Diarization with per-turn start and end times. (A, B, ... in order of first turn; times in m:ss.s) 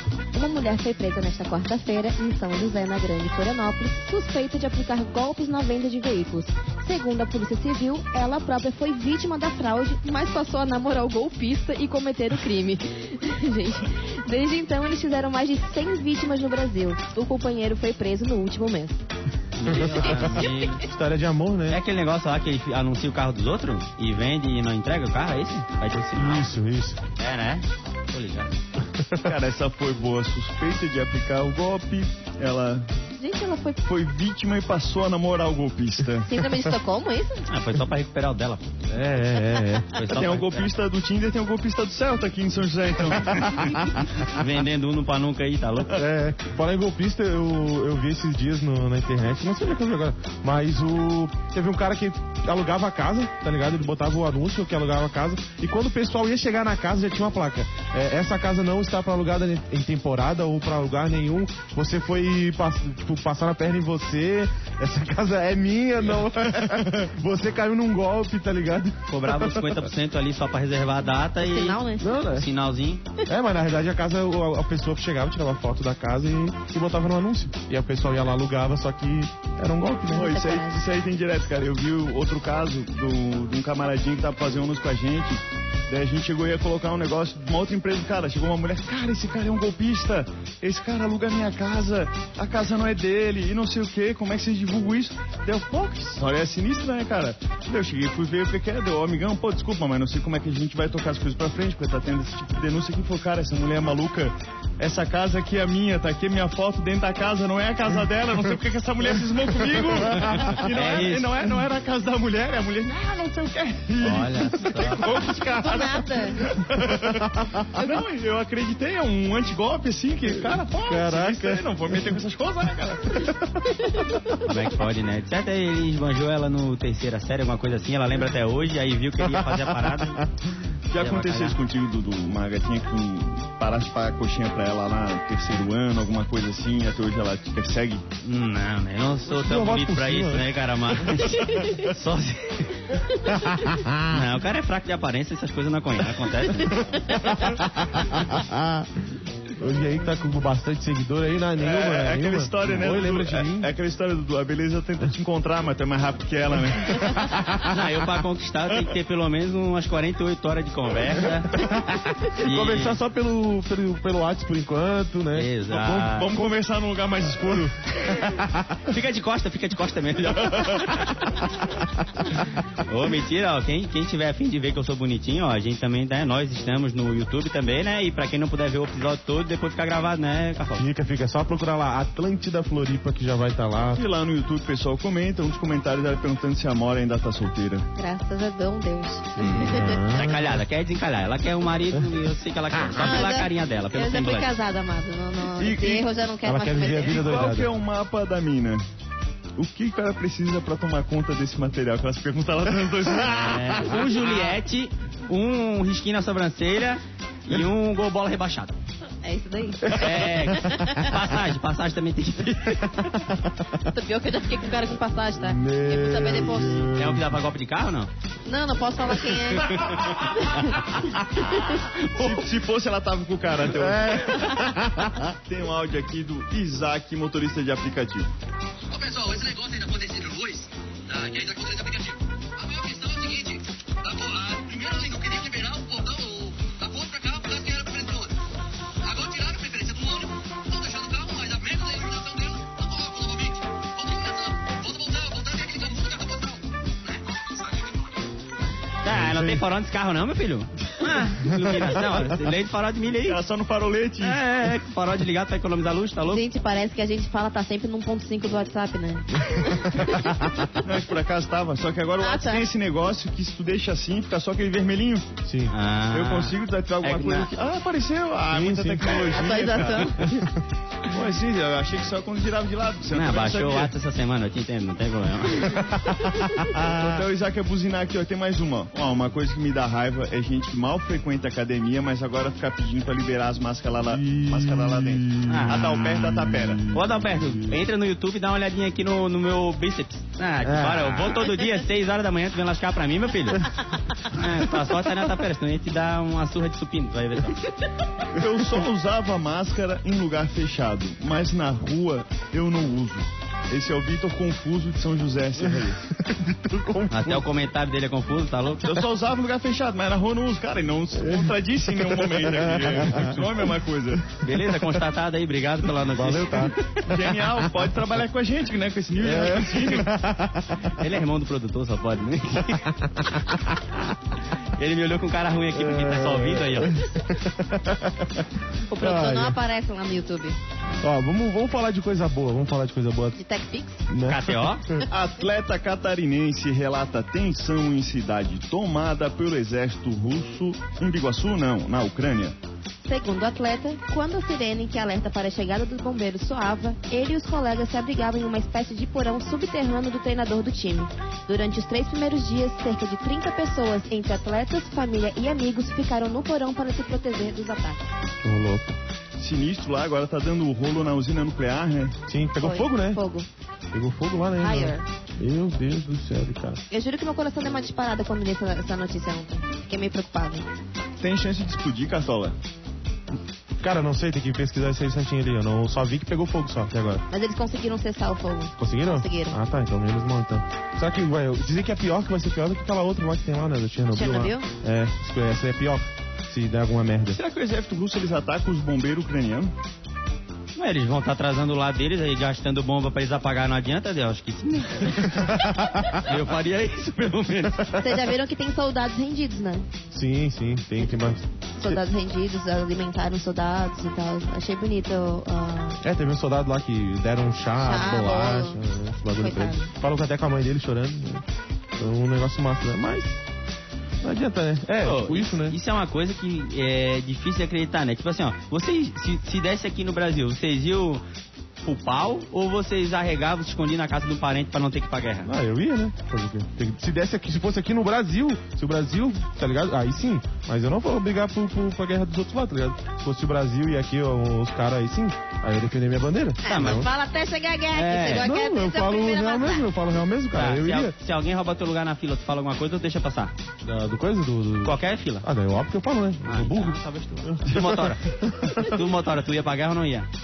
0:00.3-0:19.0 A
0:19.6-0:20.8 B
0:19.6-0:21.8 C
0:19.9-0:20.7 A
0:21.7-0:26.5 B
0:26.1-0:27.0 C
0:27.2-0:28.6 B
0:28.9-0:29.3 C
0:29.2-0:32.9 D
0:33.2-0:33.8 A
0:33.8-0:36.3 D
0:36.2-0:37.4 A
0:37.5-0:38.7 B
0:38.9-0:39.9 C
0:39.9-0:40.7 B
0:40.1-0:43.6 D
0:44.2-0:46.0 B
0:45.9-1:09.8 C
1:09.1-1:13.0 B
1:11.4-1:12.1 A
1:12.0-1:12.5 C
1:13.3-1:20.4 C
1:20.1-2:03.3 D
1:20.1-1:20.8 A
1:50.2-1:51.3 B
1:54.0-1:55.2 B
1:55.3-1:56.4 A
1:56.8-1:57.7 C
2:00.3-2:02.0 C
2:03.2-2:03.4 C
2:03.8-2:04.2 A
2:04.4-2:10.2 B
2:09.2-2:10.2 C
2:10.9-2:18.0 D
2:10.9-2:11.6 B
2:18.2-2:23.4 B
2:19.3-2:20.5 C
2:21.1-2:21.3 C
2:23.2-2:24.3 C
2:24.0-2:27.2 B
2:26.9-2:28.9 C
2:29.5-2:33.7 C
2:31.6-2:37.3 D
2:37.0-2:37.8 C
2:37.7-2:41.6 B
2:41.2-2:46.5 C
2:42.4-2:43.0 B
2:45.3-2:46.4 B
2:45.9-2:48.2 D
2:48.2-2:48.7 C
2:48.8-2:51.7 B
2:50.4-2:50.8 D
2:52.4-3:00.8 B
3:00.7-3:04.0 C
3:03.9-3:07.9 D
3:08.0-3:10.0 A
3:09.4-3:10.6 C
3:09.4-3:14.5 B
3:12.9-3:17.3 A
3:15.5-3:16.1 D
3:16.4-3:17.7 C
3:16.9-3:18.8 D
3:19.6-3:24.3 D
3:23.3-3:28.7 B
3:29.2-3:31.1 A
3:29.8-3:31.0 C
3:29.9-3:33.2 B
3:33.0-3:33.7 C
3:33.8-3:36.9 A
3:35.4-3:37.3 C
3:36.9-3:38.1 B
3:38.4-3:40.8 A
3:39.5-3:41.0 B
3:41.7-3:42.4 B
3:42.1-3:44.6 D
3:43.7-3:45.3 C
3:45.4-3:48.3 D
3:48.9-3:58.4 E
3:59.0-4:08.3 E
4:09.0-4:13.4 B
4:09.1-4:09.6 C
4:11.5-4:12.0 C
4:13.2-4:14.4 D
4:14.2-4:16.4 B
4:16.2-4:20.8 A
4:19.4-4:20.5 C
4:20.8-4:25.3 D
4:22.2-4:22.6 A
4:25.4-4:25.7 C
4:25.7-4:27.5 B
4:26.1-4:30.2 D
4:28.5-4:30.6 C
4:29.3-4:30.5 A
4:31.1-4:33.9 D
4:33.1-4:35.8 B
4:35.8-4:37.3 C
4:36.7-4:46.8 D
4:44.1-4:47.8 C
4:45.4-4:46.3 B
4:46.9-4:57.7 B
4:50.6-4:51.5 C
4:58.3-5:06.0 D
5:05.7-5:07.4 C
5:07.1-5:09.0 B
5:08.8-5:14.3 D
5:11.1-5:13.6 C
5:14.4-5:17.0 B
5:14.4-5:14.8 C
5:15.9-5:16.8 C
5:17.1-5:20.1 D
5:19.2-5:21.0 C
5:20.9-5:23.6 B
5:22.8-5:23.5 C
5:24.8-5:27.0 B
5:25.7-5:29.6 C
5:28.9-5:30.6 A
5:31.0-5:33.4 C
5:33.4-5:34.0 A
5:34.1-5:35.0 C
5:34.3-5:34.8 B
5:35.1-5:42.6 D
5:43.0-5:58.0 A
5:58.4-5:59.0 C
5:59.4-6:02.1 D
6:02.3-6:03.2 C
6:02.6-6:03.5 A
6:03.9-6:06.8 C
6:04.6-6:05.0 A
6:06.9-6:10.7 A
6:11.2-6:12.6 D
6:13.8-6:17.2 C
6:17.3-6:19.6 A
6:18.8-6:27.4 C
6:24.1-6:24.7 A
6:27.3-6:29.7 D
6:30.8-6:38.0 B
6:35.2-6:36.2 C
6:38.0-6:39.9 A
6:40.1-6:42.0 C
6:41.8-6:46.0 A
6:46.0-6:51.4 C
6:47.8-6:48.8 A
6:49.4-6:49.9 A
6:52.0-6:53.4 C
6:54.2-6:55.8 C
6:55.0-7:01.2 B
7:01.8-7:05.5 B
7:05.4-7:17.1 C
7:16.6-7:19.9 A
7:16.7-7:17.1 B
7:17.9-7:18.5 B
7:18.3-7:21.1 C
7:20.5-7:23.5 B
7:23.8-7:29.0 C
7:24.8-7:25.4 B
7:26.4-7:28.2 B
7:28.8-7:30.3 B